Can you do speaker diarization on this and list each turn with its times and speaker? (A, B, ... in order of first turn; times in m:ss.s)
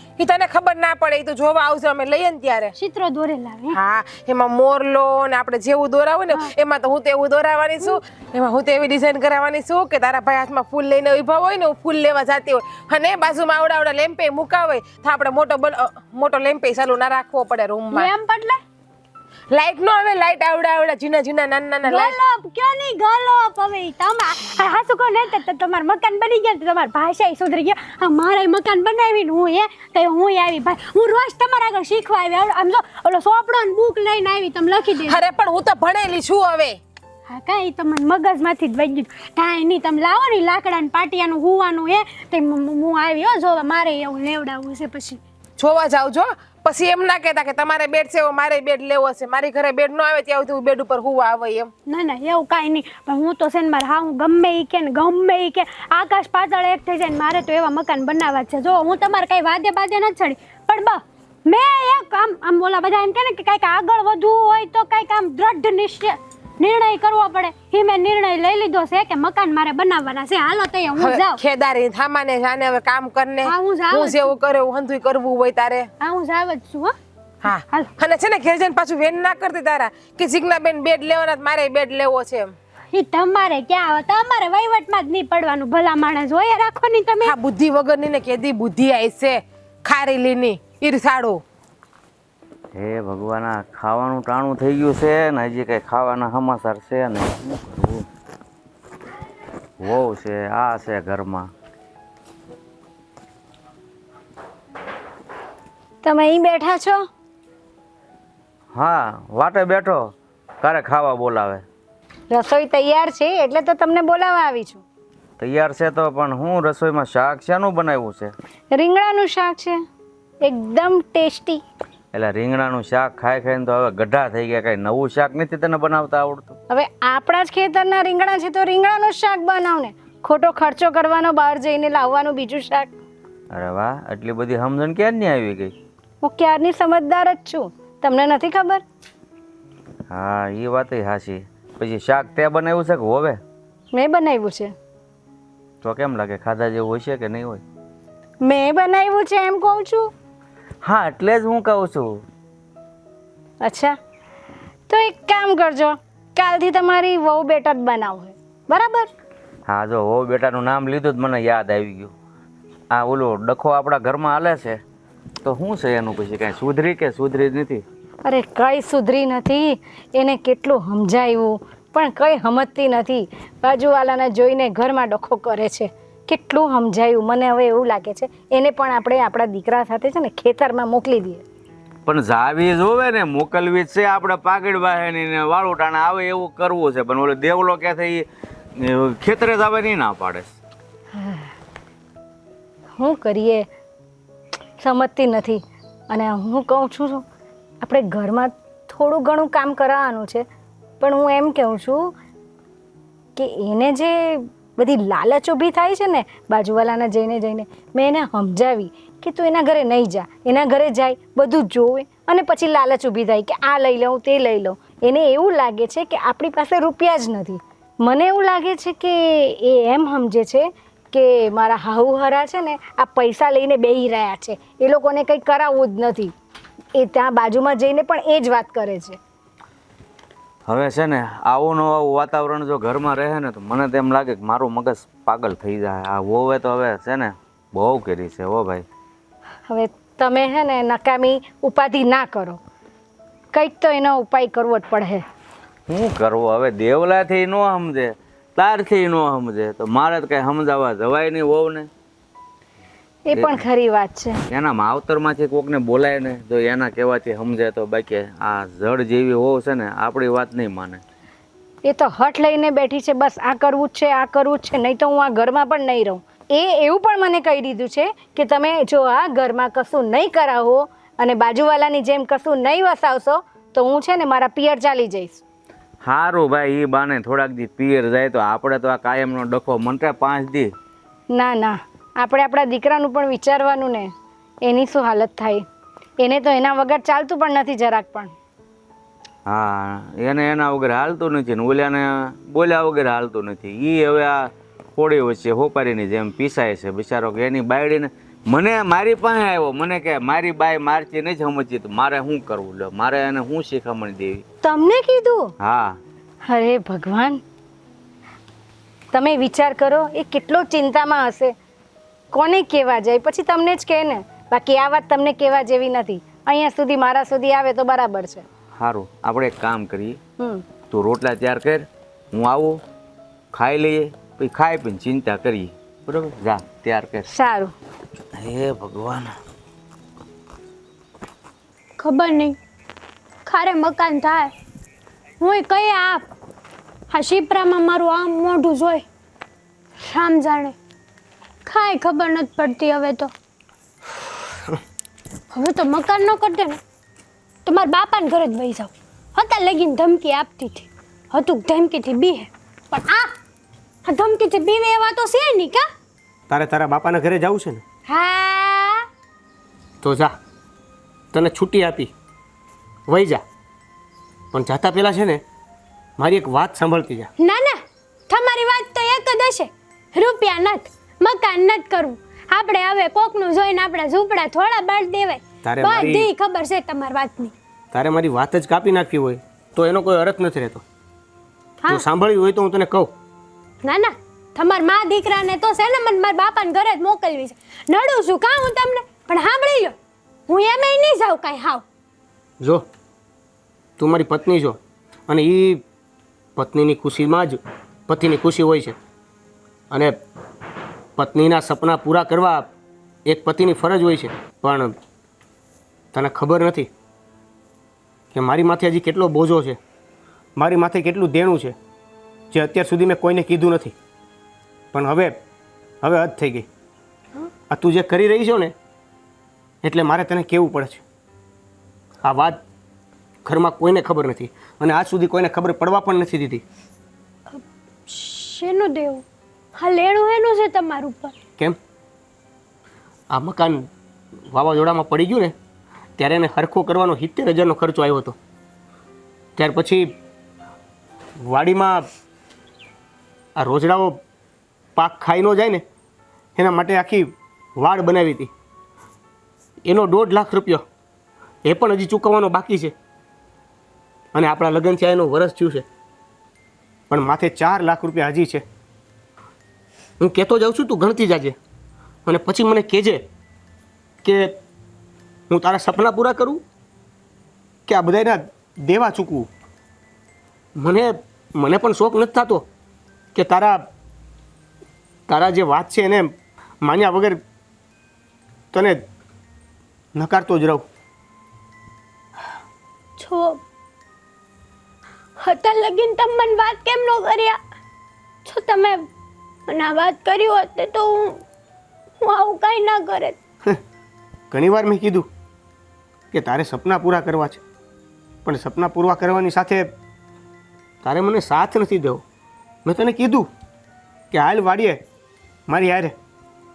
0:00.2-0:02.7 A
0:02.8-0:03.8 B
0:03.7-0:18.1 A
0:17.9-0:18.6 B
0:19.5-0:22.2 A
0:21.8-0:35.2 B
0:35.1-0:36.8 A
0:37.3-0:45.2 B
0:45.6-0:51.7 A
0:51.9-1:11.4 B
1:11.0-1:15.9 A
1:13.4-1:14.3 B
1:16.0-1:17.0 B
1:17.4-1:22.5 A
1:22.9-1:27.4 B
1:27.2-1:31.4 A
1:32.8-1:38.1 C
1:39.8-1:41.5 C
1:46.0-1:47.0 D
1:48.7-1:51.6 C
1:52.3-1:54.8 D
1:55.4-1:58.3 C
1:58.7-1:59.8 D
2:00.4-2:01.6 D
2:02.1-2:06.6 C
2:06.7-2:12.9 D
2:13.5-2:15.8 C
2:16.2-2:18.8 D
2:20.1-2:23.4 C
2:23.9-2:24.7 D
2:25.8-2:27.6 C
2:28.4-2:30.1 D
2:30.8-2:32.2 C
2:33.6-2:34.0 D
2:34.9-2:39.1 D
2:39.7-2:42.1 C
2:42.9-2:44.8 C
2:45.4-2:47.8 C
2:48.2-3:01.4 D
3:02.1-3:10.5 C
3:11.2-3:11.5 D
3:13.0-3:13.7 D
3:14.8-3:17.2 D
3:17.8-3:20.4 D
3:21.0-3:22.1 D
3:23.4-3:46.3 D
3:47.0-3:49.2 D
3:50.7-3:58.8 C
3:59.7-4:02.6 D
4:03.5-4:05.2 D
4:05.9-4:11.9 C
4:13.3-4:14.4 D
4:13.3-4:13.6 C
4:14.5-4:21.0 C
4:21.9-4:35.4 D
4:36.0-4:40.7 C
4:41.3-4:44.1 D
4:44.7-4:45.6 D
4:46.2-4:48.3 D
4:49.5-5:04.4 C
5:04.6-5:05.5 D
5:05.6-5:06.0 C
5:06.5-5:07.4 D
5:09.1-5:11.5 D
5:12.3-5:18.4 D
5:18.8-5:20.2 C
5:20.9-5:22.8 C
5:23.5-5:27.3 C
5:27.3-5:27.7 D
5:28.4-5:29.4 C
5:32.0-5:32.6 B
5:33.4-5:34.5 B
5:35.4-5:36.3 B
5:37.1-5:39.0 B
5:40.0-5:40.8 B
5:41.7-5:43.3 B
5:45.5-5:46.8 B
5:47.6-5:53.3 B
5:54.0-5:55.9 B
5:56.5-5:57.8 E
5:58.1-5:59.0 B
6:00.0-6:00.3 E
6:01.3-6:02.1 E
6:03.1-6:03.4 E
6:04.5-6:05.4 E
6:06.2-6:07.3 E
6:07.4-6:17.5 B
6:15.6-6:16.3 E
6:17.9-6:20.8 E
6:21.9-6:23.1 E
6:23.8-6:30.0 B
6:30.5-6:31.8 B
6:34.0-6:35.8 E
6:36.6-6:39.0 E
6:39.9-6:40.2 E
6:41.2-6:42.7 E
6:43.3-6:45.0 E
6:46.1-6:46.9 E
6:48.3-6:49.8 E
6:50.6-6:51.8 E
6:52.5-6:54.0 E
6:54.9-6:55.4 E
6:56.0-6:56.7 E
6:57.7-6:58.7 E
6:59.8-7:01.0 E
7:02.2-7:02.6 E
7:03.4-7:06.6 E
7:07.5-7:09.2 B
7:09.8-7:11.3 B
7:13.3-7:13.9 E
7:14.5-7:15.6 E
7:16.2-7:18.4 E
7:19.6-7:20.1 E
7:21.4-7:22.1 E
7:23.6-7:24.2 E
7:25.0-7:25.8 E
7:26.6-7:28.5 E
7:29.8-7:30.8 E
7:31.6-7:33.0 E
7:34.3-7:35.9 E
7:37.1-7:38.6 E
7:40.2-7:41.6 E
7:42.3-7:43.2 E
7:44.2-7:44.6 E
7:45.5-7:46.6 E
7:47.9-7:49.5 E
7:50.8-7:52.7 E
7:53.3-7:53.8 E
7:55.3-7:57.4 E
7:58.7-7:59.0 E
8:00.2-8:00.9 E
8:03.2-8:03.6 B
8:05.4-8:07.6 B
8:08.5-8:09.1 B
8:09.7-8:11.4 B
8:12.2-8:13.4 B
8:14.5-8:15.3 E
8:16.3-8:17.6 E
8:18.5-8:19.9 E
8:21.0-8:22.2 E
8:22.8-8:23.5 E
8:24.3-8:25.0 E
8:25.7-8:26.2 E